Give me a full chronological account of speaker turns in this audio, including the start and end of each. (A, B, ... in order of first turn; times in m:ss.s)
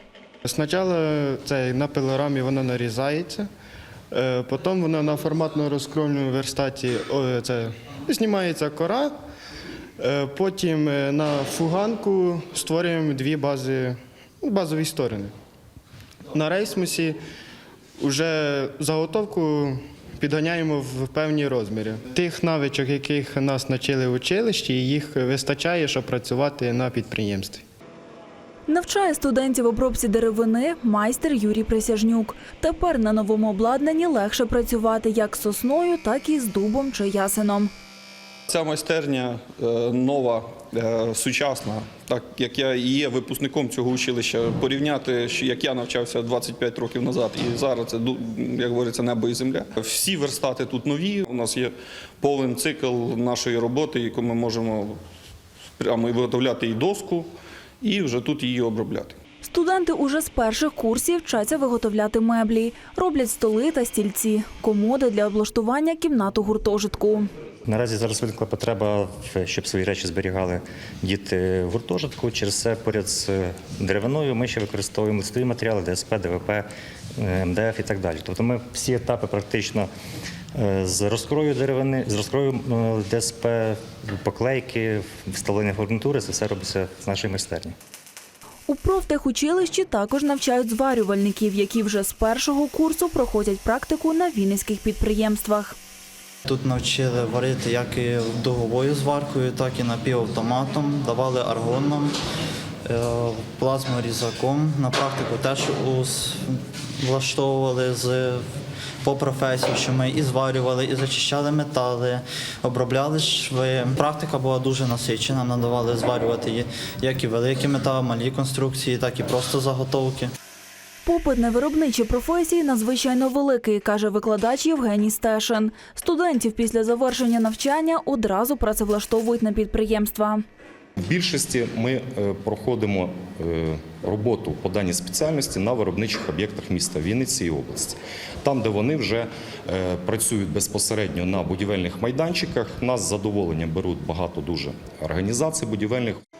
0:00.4-0:03.5 A
0:04.1-0:09.1 A
0:10.0-0:15.3 A
0:16.3-0:17.2 A
0:18.0-0:27.6 A
0:28.7-0:37.7 B
0:38.5-0:55.0 C
0:55.8-0:59.2 C
0:59.4-1:07.3 B
1:07.6-1:19.9 D
1:20.6-1:27.7 D
1:28.7-1:35.8 B
1:36.4-1:42.1 E
1:42.9-1:48.4 E
1:49.0-2:00.3 E
2:01.0-2:10.4 B
2:11.0-2:26.2 F